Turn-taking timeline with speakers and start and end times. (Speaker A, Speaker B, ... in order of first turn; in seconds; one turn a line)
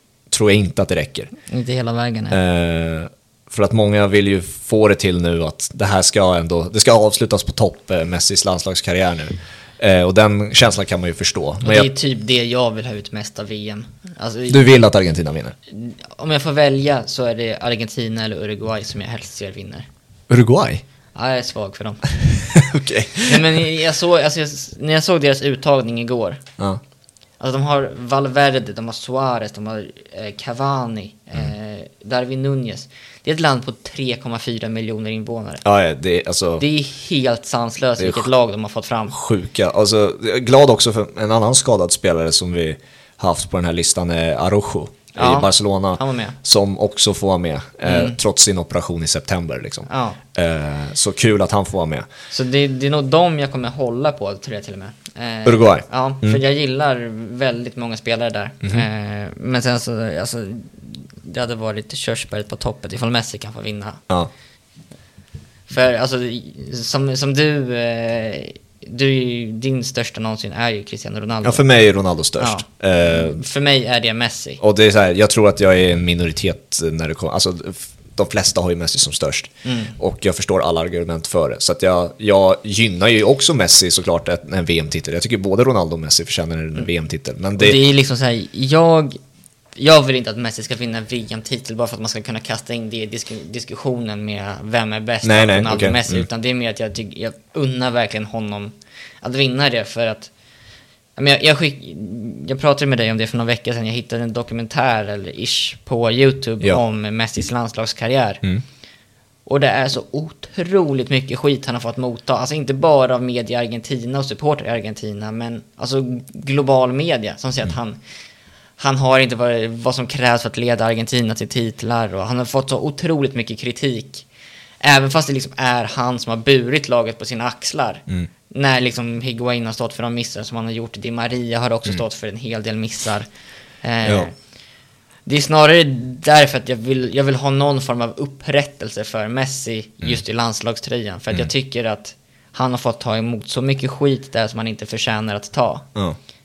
Speaker A: 0.3-1.3
Speaker B: 1.5-2.4
Speaker A: 2.3-11.9
Speaker B: 11.6-14.7
Speaker A: 14.5-15.5
Speaker B: 15.7-19.9
Speaker A: 20.3-20.8
Speaker B: 21.1-22.0
Speaker A: 22.4-23.6
Speaker B: 23.3-26.4
Speaker B: 27.4-35.6
Speaker A: 35.6-36.6
Speaker B: 36.6-39.1
Speaker A: 38.0-38.3
Speaker A: 39.1-52.0
Speaker B: 45.1-46.4
Speaker B: 47.8-48.2
Speaker B: 49.9-50.2
Speaker B: 52.3-64.0
Speaker A: 55.4-56.4
Speaker B: 65.7-71.6
Speaker A: 71.4-73.4
Speaker B: 72.4-74.6
Speaker A: 74.6-87.8
Speaker B: 79.6-80.0
Speaker B: 87.6-89.2
Speaker B: 89.8-100.3
Speaker A: 95.2-96.2
Speaker B: 101.2-108.4
Speaker B: 109.5-118.0
Speaker B: 118.8-124.2
Speaker B: 124.8-133.2
Speaker B: 133.8-134.3
Speaker A: 134.0-134.3
Speaker B: 135.2-145.9